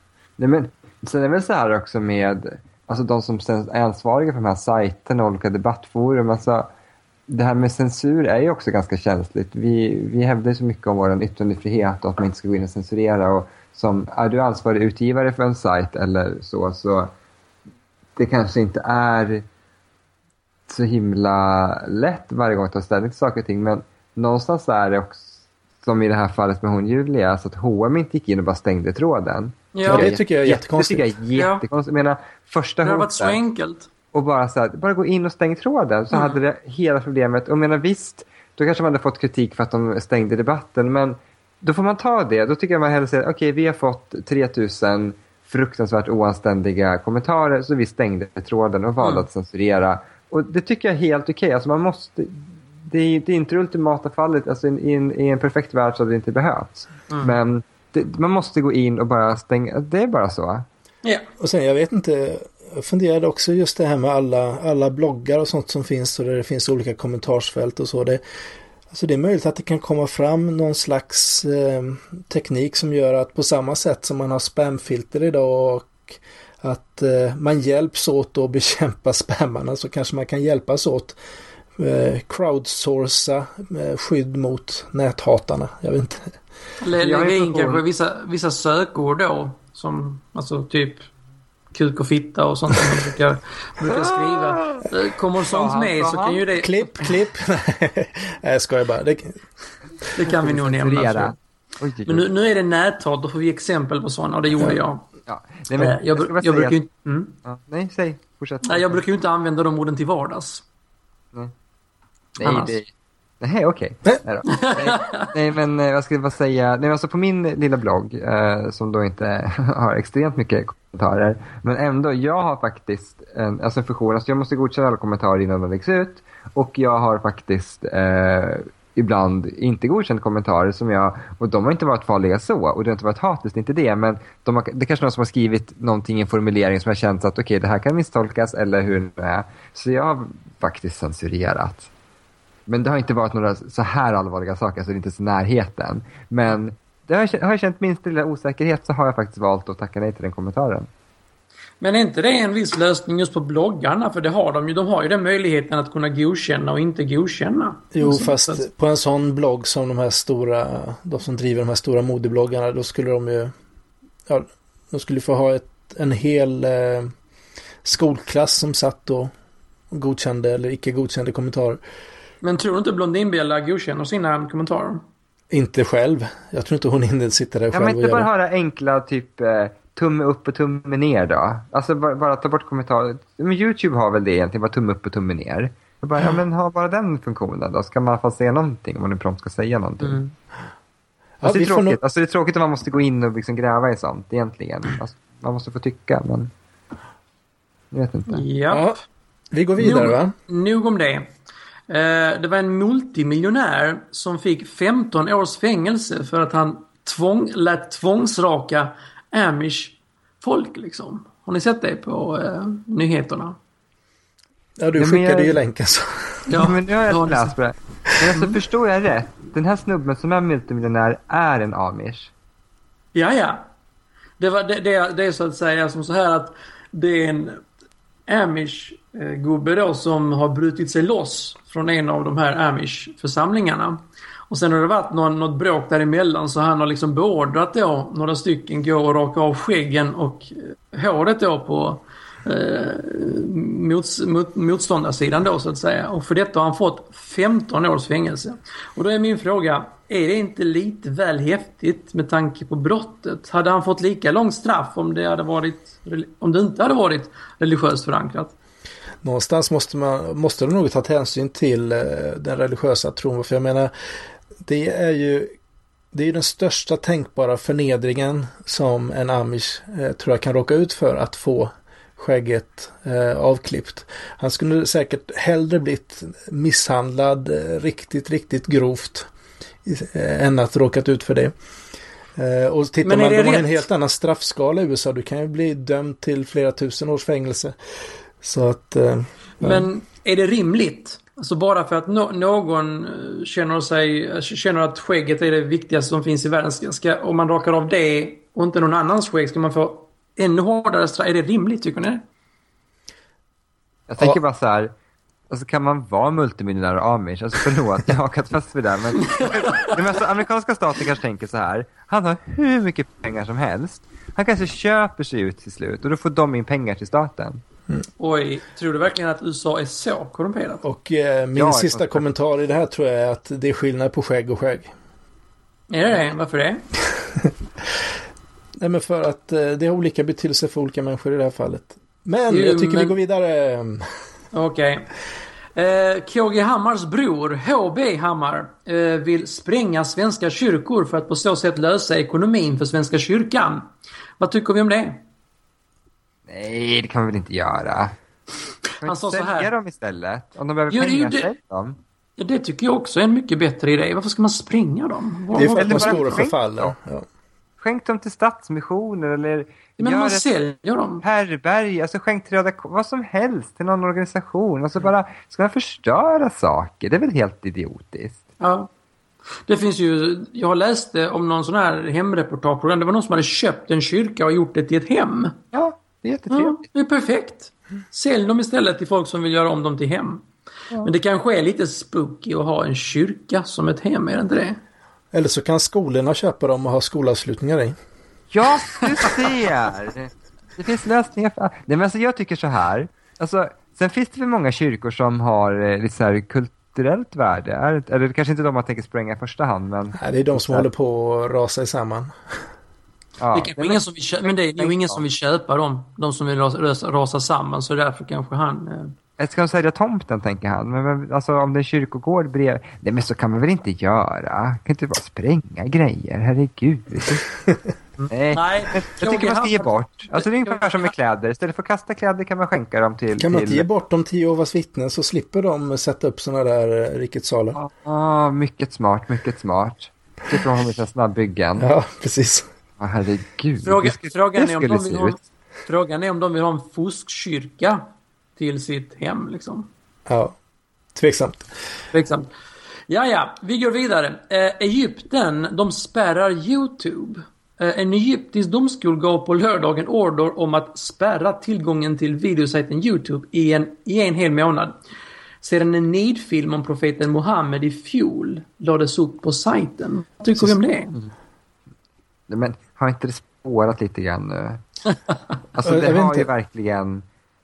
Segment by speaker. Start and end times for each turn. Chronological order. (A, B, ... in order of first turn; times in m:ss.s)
0:00.4-0:06.7 A
0:07.3-0:17.1 A
0:18.2-0:19.4 A
0:20.7-0:33.4 A
0:29.7-0:30.1 B
0:29.8-0:31.1 C
0:31.3-0:31.6 B
0:32.8-0:33.9 B
0:34.1-1:00.6 A
0:36.1-0:36.4 B
0:49.0-0:49.2 B
0:57.1-0:57.3 B
1:01.4-1:08.2 C
1:08.9-1:21.2 C
1:21.8-1:26.3 C
1:26.8-1:31.0 B
1:27.0-1:27.8 A
1:31.7-1:37.1 B
1:33.9-1:34.8 A
1:35.5-1:36.4 A
1:36.6-1:39.4 C
1:40.2-1:41.4 B
1:40.2-1:42.2 A
1:42.0-1:45.1 B
1:45.2-1:46.8 A
1:45.8-1:47.3 B
1:47.4-1:49.0 A
1:48.6-1:50.6 B
1:52.4-1:52.9 A
1:52.4-1:52.8 B
1:53.4-2:21.9 A
1:54.5-1:55.3 B
2:22.7-2:30.9 A
2:31.8-2:38.6 B
2:37.9-2:43.5 C
2:44.3-2:47.1 C
2:47.8-2:49.3 C
2:49.9-2:51.8 C
2:52.4-2:55.0 B
2:55.5-2:58.3 C
2:57.7-3:10.2 A
3:10.0-3:10.3 B
3:11.4-3:12.0 C
3:11.4-3:16.5 A
3:17.9-3:18.4 A
3:18.3-3:19.0 B
3:18.7-3:19.0 C
3:19.5-3:20.3 C
3:19.8-3:21.3 B
3:21.9-3:33.6 B
3:34.8-3:36.5 C
3:35.0-3:35.6 A
3:36.5-3:37.5 B
3:36.6-3:42.3 A
3:43.1-3:43.6 B
3:44.4-3:47.6 B
3:48.3-4:18.5 B
4:19.2-4:23.9 C
4:24.6-4:25.5 C
4:26.1-4:39.3 C
4:39.8-4:41.5 C
4:42.4-4:47.8 C
4:43.0-4:43.8 B
4:48.4-4:49.9 C
4:49.6-5:02.2 B
5:04.1-5:04.9 A
5:05.5-5:17.6 A
5:09.2-5:10.0 B
5:18.2-5:20.8 B
5:20.8-5:24.9 C
5:21.5-5:22.2 A
5:25.9-5:26.8 B
5:28.8-5:34.0 C
5:32.5-5:33.1 B
5:34.5-5:35.1 B
5:35.7-5:43.9 B
5:44.4-5:45.2 B
5:46.5-5:48.1 A
5:49.0-5:49.7 B
5:49.0-5:52.0 A
5:50.9-5:51.5 B
5:52.4-5:56.4 B
5:55.5-5:57.3 C
5:55.6-5:56.9 A
5:57.8-6:00.5 A
6:00.0-6:01.2 B
6:01.2-6:08.4 A
6:08.6-6:08.9 B
6:09.7-6:15.6 B
6:15.7-6:16.8 A
6:16.5-6:20.4 B
6:21.0-6:24.8 B
6:25.3-6:28.0 C
6:28.5-6:40.8 A
6:40.2-6:42.6 C
6:43.4-6:45.2 A
6:43.5-6:49.1 B
6:49.4-6:57.5 A
6:58.2-7:01.1 B
6:58.3-7:03.8 A
7:03.4-7:07.8 C
7:07.7-7:11.9 A
7:11.8-7:12.7 C
7:13.0-7:15.4 A
7:13.8-7:18.0 B
7:18.6-7:19.9 B
7:20.3-7:20.6 C
7:21.1-7:21.7 C
7:22.1-7:22.5 B
7:23.1-7:35.0 B
7:35.6-7:41.2 B
7:42.5-7:44.8 A
7:45.7-7:47.2 A
7:45.8-7:46.5 C